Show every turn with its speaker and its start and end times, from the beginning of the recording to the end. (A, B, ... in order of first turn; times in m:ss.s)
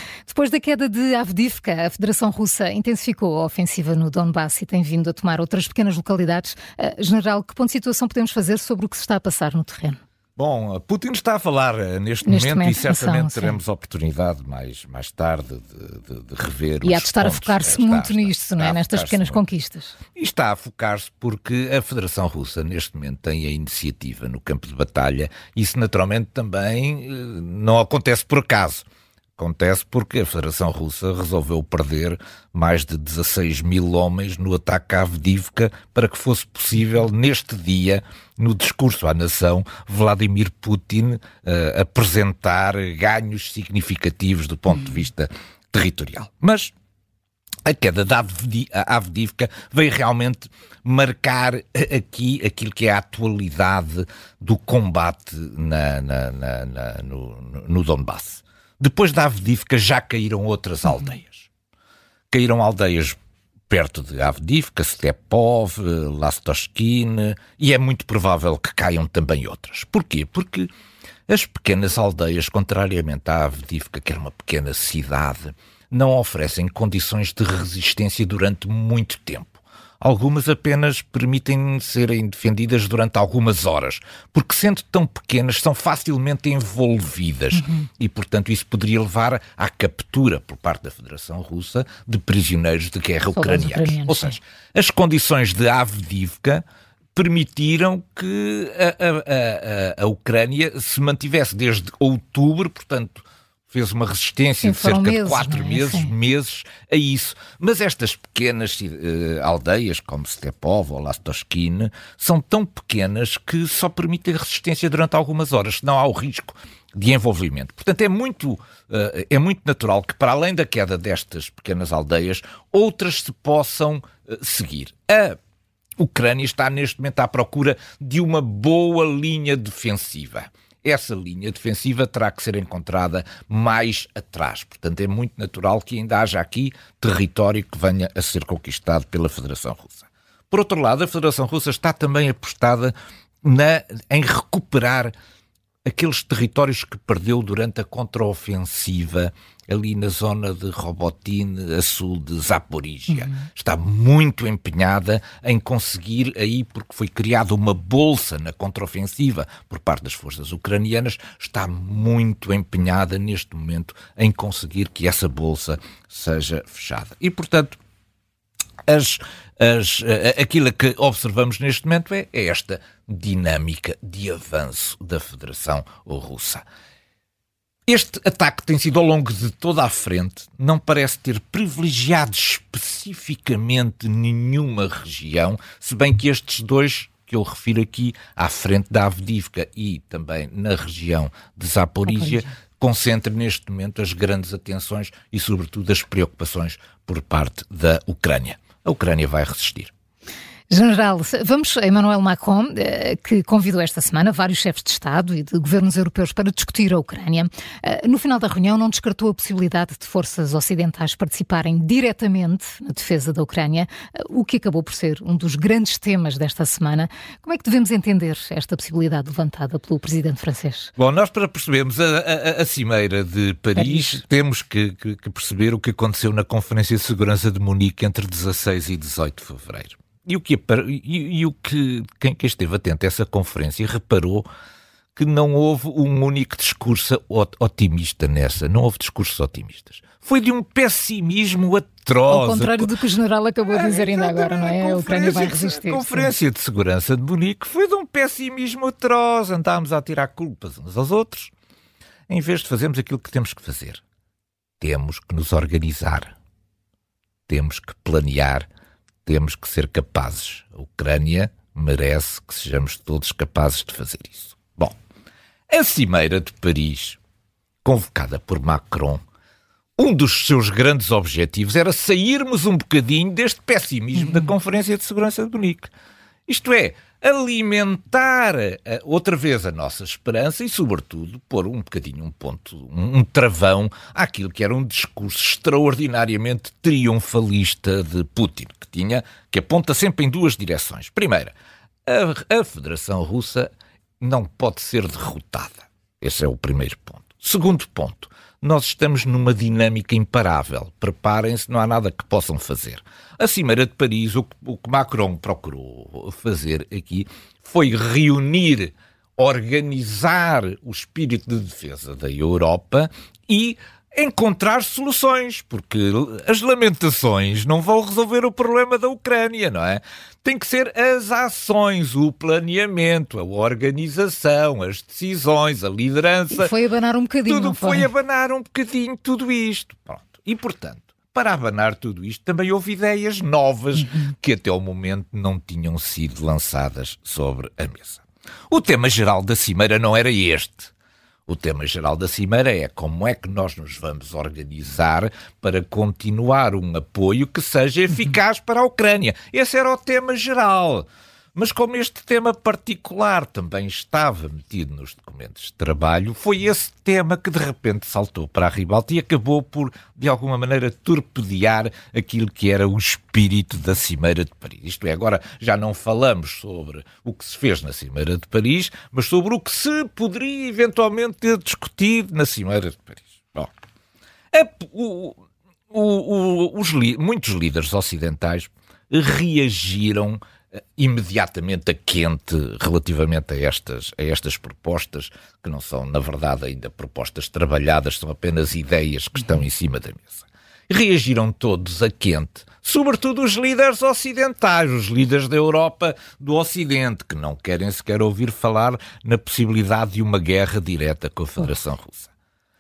0:00.3-0:10.0 A
0:10.4-0:19.4 B
0:12.2-0:13.6 A
0:16.8-0:20.0 A
0:20.2-0:28.8 B
0:29.4-0:46.7 B
0:47.6-1:01.5 B
1:02.3-1:03.2 B
1:03.7-1:10.7 B
1:11.3-1:36.6 B
1:27.5-1:27.9 A
1:33.4-1:34.3 A
1:37.2-2:05.4 B
1:44.6-1:46.1 A
2:06.0-2:25.1 B
2:25.8-2:47.8 B
2:48.9-2:56.6 B
2:57.9-3:19.9 B
3:12.1-3:12.5 A
3:20.7-3:40.9 A
3:41.0-3:54.5 B
3:43.8-3:44.2 A
3:55.2-4:02.9 B
4:02.3-4:06.3 A
4:03.7-4:11.5 B
4:12.3-4:14.0 B
4:14.8-4:16.3 B
4:17.5-4:18.7 B
4:19.2-4:25.0 B
4:25.7-4:27.2 B
4:27.8-4:29.2 B
4:30.0-4:35.9 B
4:36.5-4:51.5 B
4:52.1-5:26.7 B
5:26.5-5:28.1 A
5:27.5-5:40.9 B
5:41.5-6:13.7 B
6:14.5-6:15.4 B
6:15.9-6:20.4 B
6:21.0-6:42.3 B